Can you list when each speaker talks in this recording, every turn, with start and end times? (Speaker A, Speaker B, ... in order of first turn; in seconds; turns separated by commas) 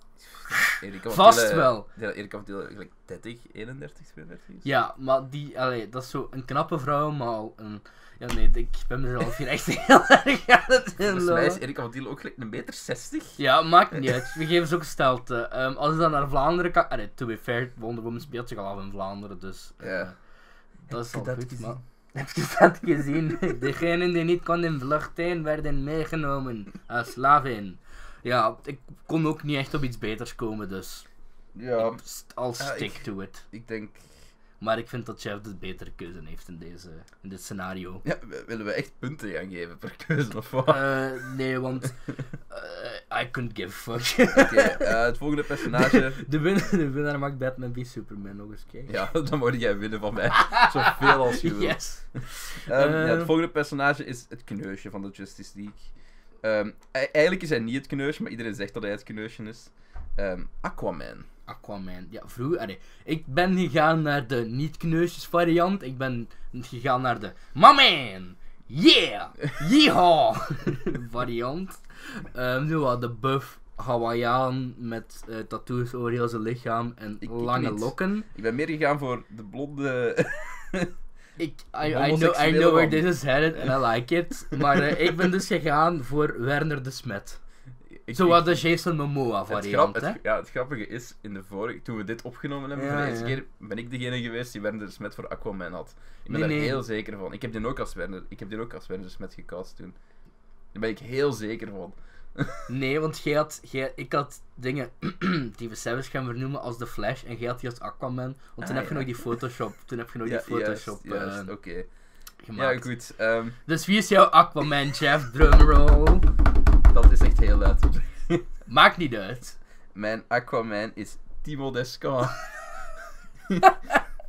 Speaker A: 0.5-1.9, Speaker B: 0.6-4.7, Speaker A: 4.6-11.6, Speaker B: 11.1-13.4, Speaker A: 13.4-20.1, Speaker B: 19.8-20.1, Speaker A: 20.9-31.1, Speaker B: 20.9-21.8, Speaker B: 31.5-32.0, Speaker A: 31.8-33.4, Speaker B: 32.6-34.0, Speaker A: 34.6-38.0, Speaker B: 38.0-41.0, Speaker A: 40.7-42.0, Speaker A: 42.5-45.0, Speaker B: 44.3-46.2, Speaker A: 45.6-48.9, Speaker B: 48.9-55.9, Speaker A: 50.4-53.3, Speaker B: 56.4-61.3, Speaker A: 61.5-78.3, Speaker B: 77.2-80.9, Speaker A: 81.4-87.4, Speaker B: 81.8-83.7, Speaker B: 84.5-85.0, Speaker B: 88.0-88.6, Speaker A: 88.1-90.2, Speaker B: 89.5-100.0, Speaker A: 92.7-93.4, Speaker A: 96.3-96.8, Speaker B: 100.7-102.6, Speaker A: 102.7-111.5, Speaker B: 108.6-109.2, Speaker B: 110.2-111.9, Speaker A: 112.4-112.9, Speaker B: 112.5-113.6, Speaker A: 113.7-116.3, Speaker B: 116.9-118.4, Speaker A: 118.7-119.5, Speaker B: 119.9-122.4